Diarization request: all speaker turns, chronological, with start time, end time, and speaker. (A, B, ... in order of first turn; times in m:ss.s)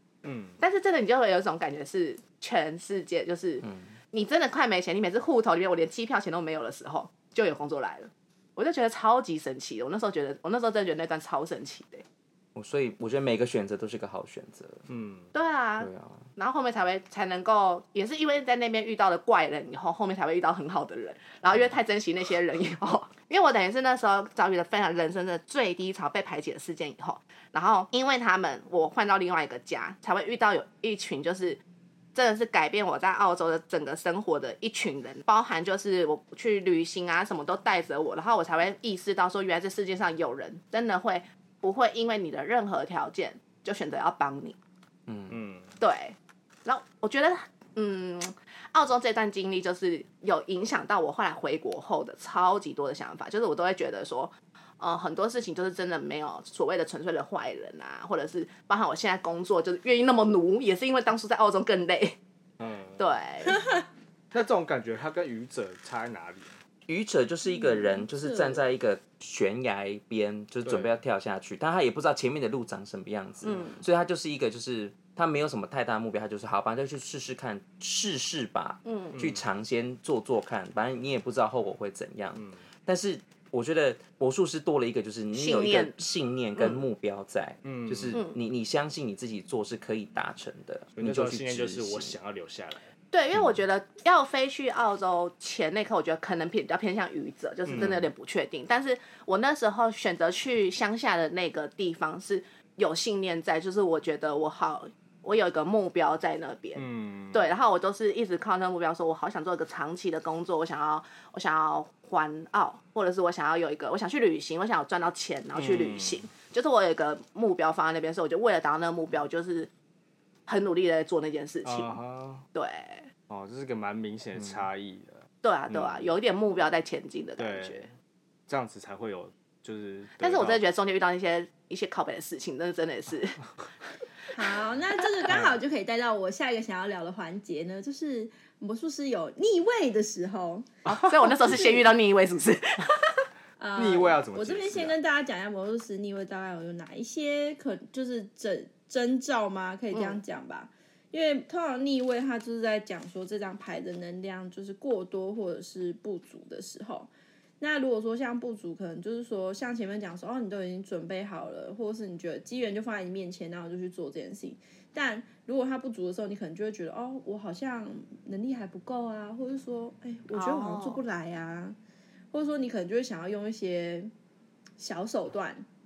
0:00.2-0:00.6 A
0:00.6-0:12.0 B
0:03.6-0:04.0 C
0:12.5-0:14.8 C
0:14.9-0:15.3 A
0:15.3-0:31.6 B
0:15.8-0:16.2 C
0:32.1-0:44.6 B
0:45.1-0:45.4 C
0:45.3-0:45.7 A
0:45.8-1:02.2 B
1:02.6-1:03.0 A
1:03.0-1:03.6 B
1:03.5-1:03.8 D
1:04.3-1:06.6 A
1:06.9-1:32.2 C
1:07.4-1:08.6 D
1:10.6-1:10.9 A
1:13.4-1:13.8 B
1:18.8-1:19.2 B
1:19.1-1:19.4 A
1:22.4-1:22.6 A
1:25.3-1:26.0 B
1:26.6-1:26.8 B
1:27.6-1:28.2 A
1:28.1-1:28.4 B
1:31.0-1:32.9 A
1:33.1-1:59.7 B
1:37.6-1:38.1 A
1:46.8-1:47.5 A
1:55.5-1:56.3 A
2:00.5-2:02.0 B
2:01.6-2:02.4 A
2:02.5-2:03.1 B
2:03.3-2:06.1 A
2:04.4-2:04.6 C
2:05.4-2:07.9 B
2:07.4-2:07.9 A
2:08.5-2:10.6 A
2:10.2-2:13.4 B
2:14.3-2:20.7 D
2:15.3-2:15.6 A
2:20.9-2:23.2 B
2:21.4-2:21.8 D
2:23.6-2:51.8 D
2:23.8-2:24.9 A
2:29.9-2:30.2 B
2:50.3-2:51.0 B
2:52.3-2:54.1 D
2:54.8-2:55.6 D